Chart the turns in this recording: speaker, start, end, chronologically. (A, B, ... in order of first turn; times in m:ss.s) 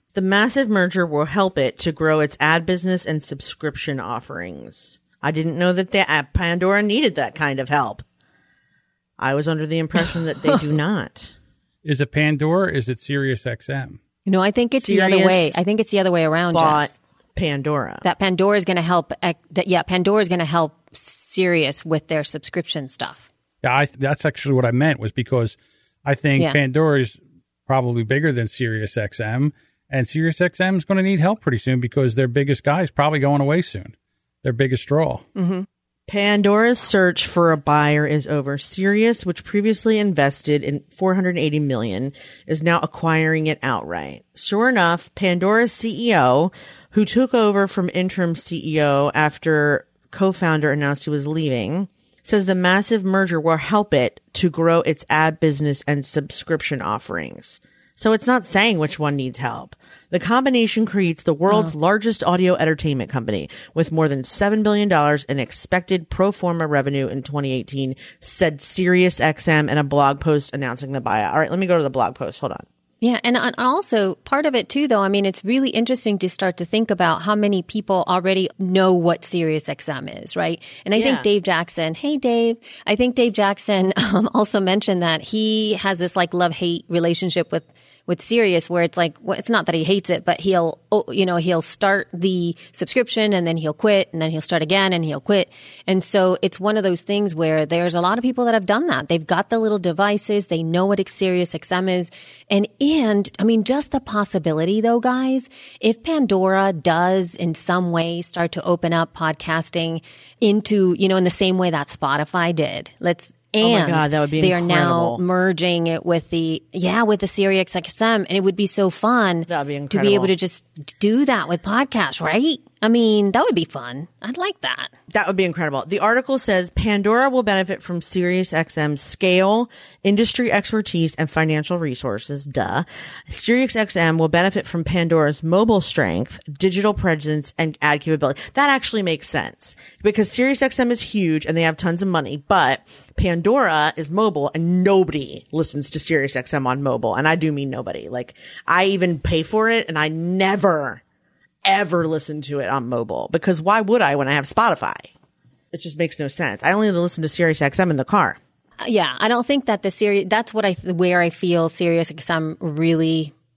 0:00.1-0:08.0 A
0:09.2-0:11.3 A
0:11.8-0:14.0 B
0:14.2-0:16.9 C
0:14.8-0:15.6 A
0:16.5-0:18.0 A
0:18.0-0:23.3 C
0:23.6-0:35.2 B
0:35.4-0:35.6 C
0:36.1-1:12.6 A
1:13.0-2:04.9 C
1:20.9-1:21.3 A
1:53.6-1:55.2 A
1:59.5-2:00.3 A
2:05.1-2:31.0 A
2:31.6-2:35.1 A
2:35.7-2:38.4 A
2:38.8-2:43.3 C